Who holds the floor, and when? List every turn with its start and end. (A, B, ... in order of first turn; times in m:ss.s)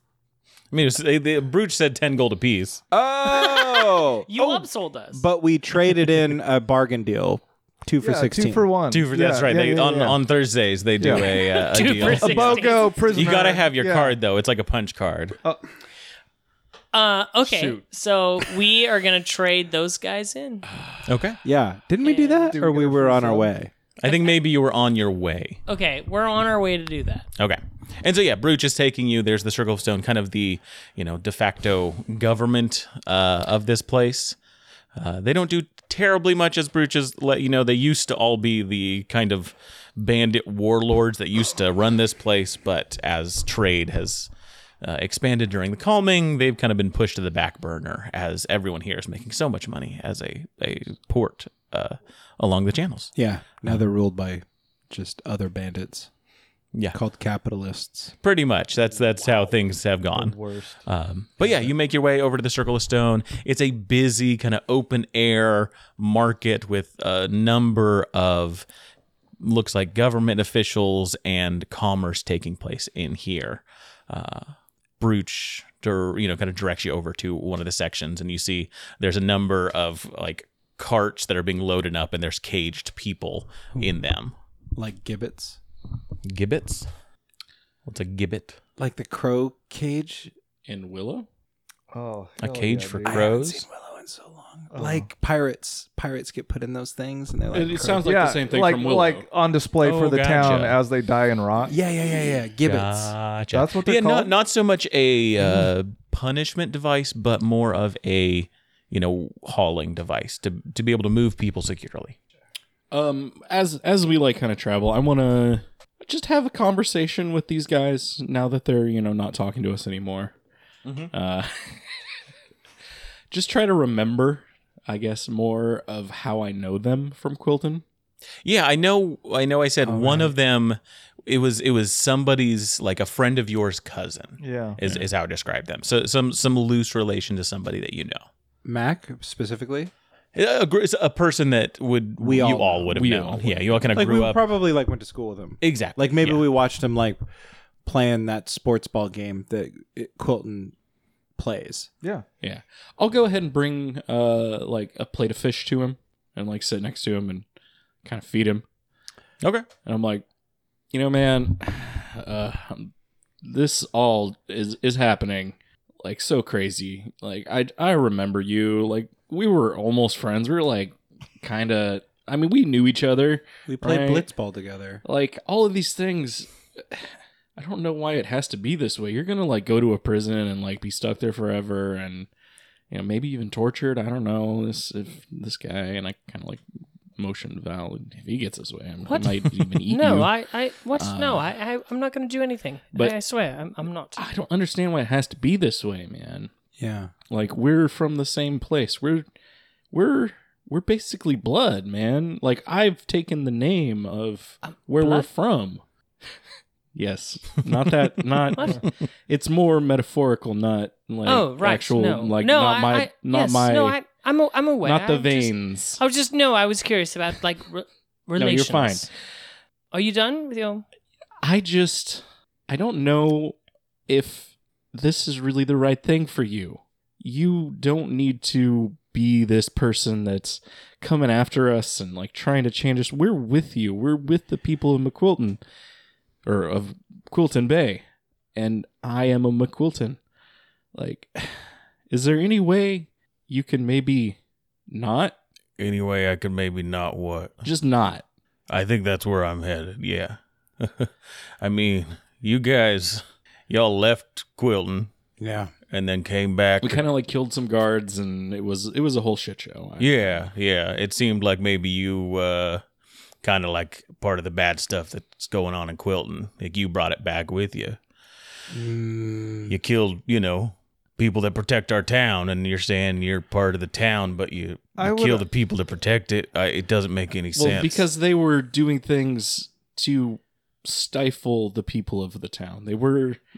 0:00.7-0:02.8 A
0:02.9-0:08.7 B
0:03.2-0:05.2 C
0:08.0-0:10.2 D
0:08.9-0:15.4 A
0:11.0-0:14.2 D
0:11.7-0:13.2 C
0:16.9-0:20.6 C
0:17.5-0:17.8 D
0:21.1-0:21.4 A
0:21.4-0:23.7 B
0:22.0-0:22.6 C
0:22.5-0:23.5 D
0:24.0-0:25.6 A
0:24.0-0:24.4 C
0:25.7-0:27.3 C
0:27.4-0:34.4 A
0:35.0-0:44.3 A
0:44.8-0:53.1 A
0:53.2-0:56.1 B
0:56.9-0:58.1 B
0:58.2-1:08.7 A
1:00.1-1:00.8 D
1:09.4-1:24.3 A
1:24.8-1:25.6 B
1:26.2-1:26.9 A
1:27.9-1:28.6 A
1:28.8-1:30.3 B
1:30.7-1:31.3 E
1:31.9-1:33.3 D
1:32.4-1:33.7 A
1:33.0-1:38.0 B
1:34.7-1:35.1 D
1:37.5-1:39.3 E
1:37.9-1:41.7 D
1:39.8-1:40.8 A
1:41.7-1:43.2 B
1:42.6-1:52.2 A
1:43.5-1:44.3 D
1:52.9-2:00.3 E
2:00.8-2:01.1 A
2:01.1-2:01.9 E
2:03.3-2:07.8 E
2:08.4-2:18.3 A
2:09.9-2:10.3 D
2:14.4-2:15.0 D
2:18.6-2:19.9 B
2:20.4-2:24.4 A
2:22.2-2:22.9 B
2:22.9-2:23.8 E
2:23.9-2:27.2 B
2:25.6-2:26.5 A
2:27.8-2:30.7 B
2:31.4-2:31.9 B
2:32.4-2:37.5 E
2:38.0-2:38.6 E
2:39.4-2:39.7 A
2:39.8-2:40.2 E
2:40.9-2:54.3 E
2:53.7-2:55.0 B
2:55.0-3:02.3 E
3:02.9-3:06.6 E
3:07.2-3:10.4 E
3:09.0-3:14.2 C
3:11.0-3:11.4 E
3:14.2-3:16.5 E
3:16.8-3:17.1 B
3:17.3-3:19.3 E
3:19.9-3:25.8 E
3:24.6-3:25.3 C
3:26.9-3:34.0 E
3:28.6-3:28.8 C
3:31.2-3:39.1 C
3:34.8-3:36.0 E
3:38.4-3:39.1 E
3:39.9-3:40.8 C
3:41.4-3:43.6 E
3:44.1-3:55.6 E
3:56.4-3:58.0 E
3:58.6-4:00.2 E
4:00.9-4:05.4 E
4:05.8-4:07.6 A
4:07.6-4:08.2 E
4:08.7-4:15.1 A
4:15.4-4:15.7 B
4:15.9-4:17.0 A
4:16.8-4:20.5 E
4:20.0-4:22.8 A
4:23.4-4:28.0 A
4:28.7-4:29.8 B
4:29.7-4:38.1 A
4:35.0-4:35.4 D
4:37.6-4:43.4 E